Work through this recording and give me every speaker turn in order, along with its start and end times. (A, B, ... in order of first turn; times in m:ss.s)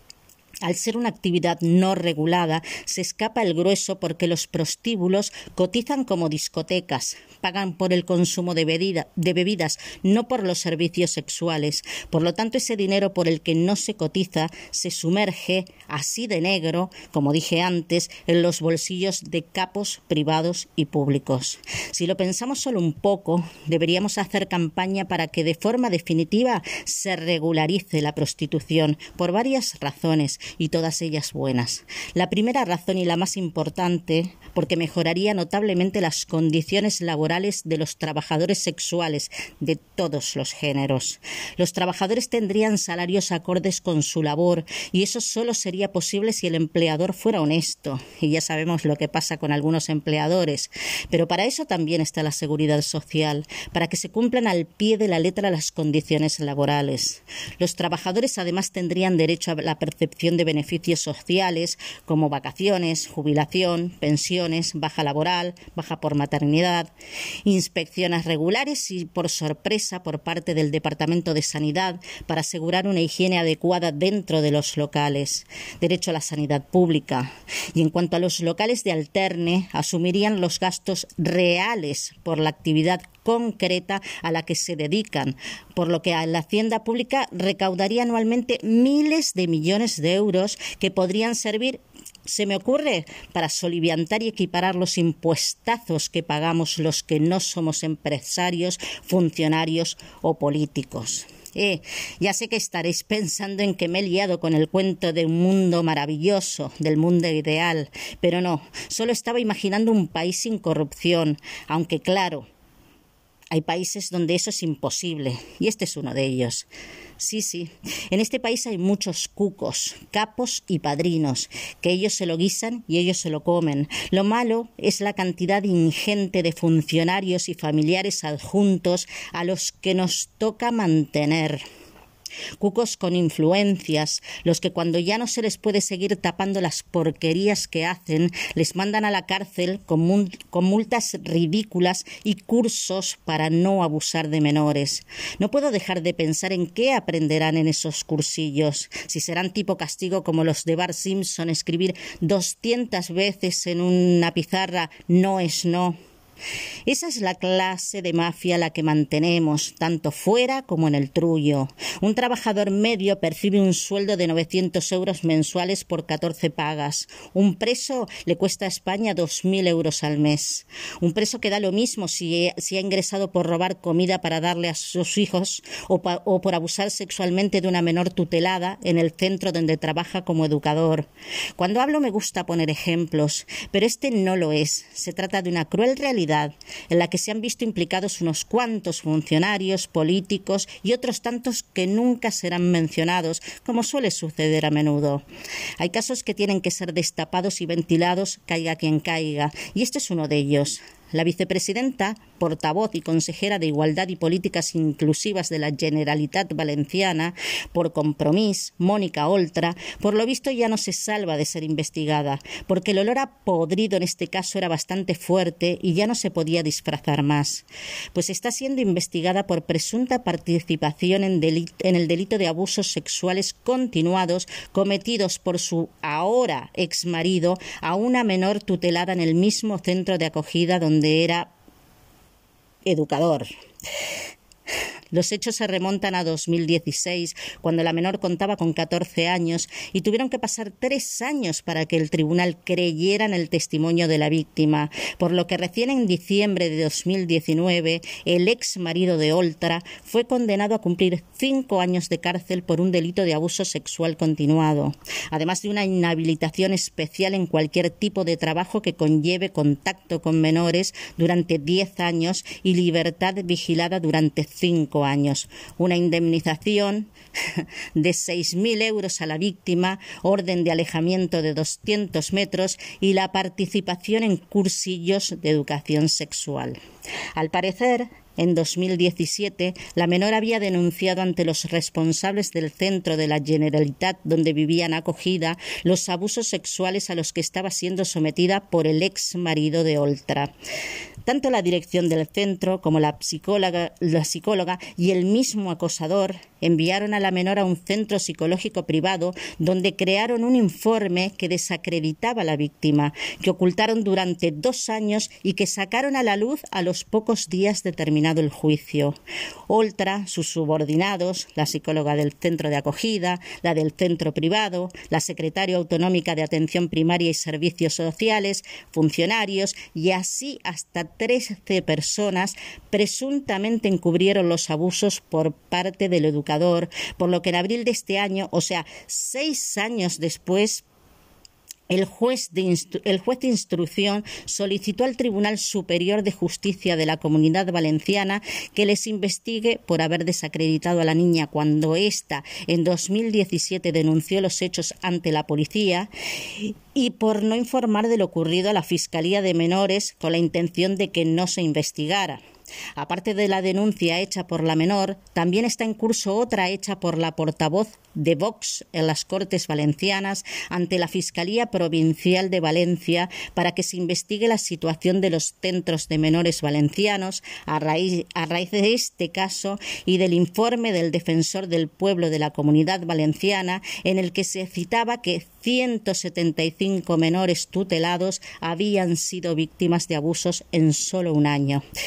0:00.6-1:06.9 A
1:07.4-1:52.5 A
1:53.5-1:56.7 A
1:57.2-2:11.6 A
2:12.6-2:36.0 A
2:36.8-3:15.2 A
3:15.8-3:51.5 A
3:52.8-3:53.5 A
3:55.1-4:36.8 A
4:37.3-4:50.5 A
4:51.2-5:09.2 A
5:09.7-5:30.8 A
5:31.9-5:52.4 A
5:53.0-6:21.8 A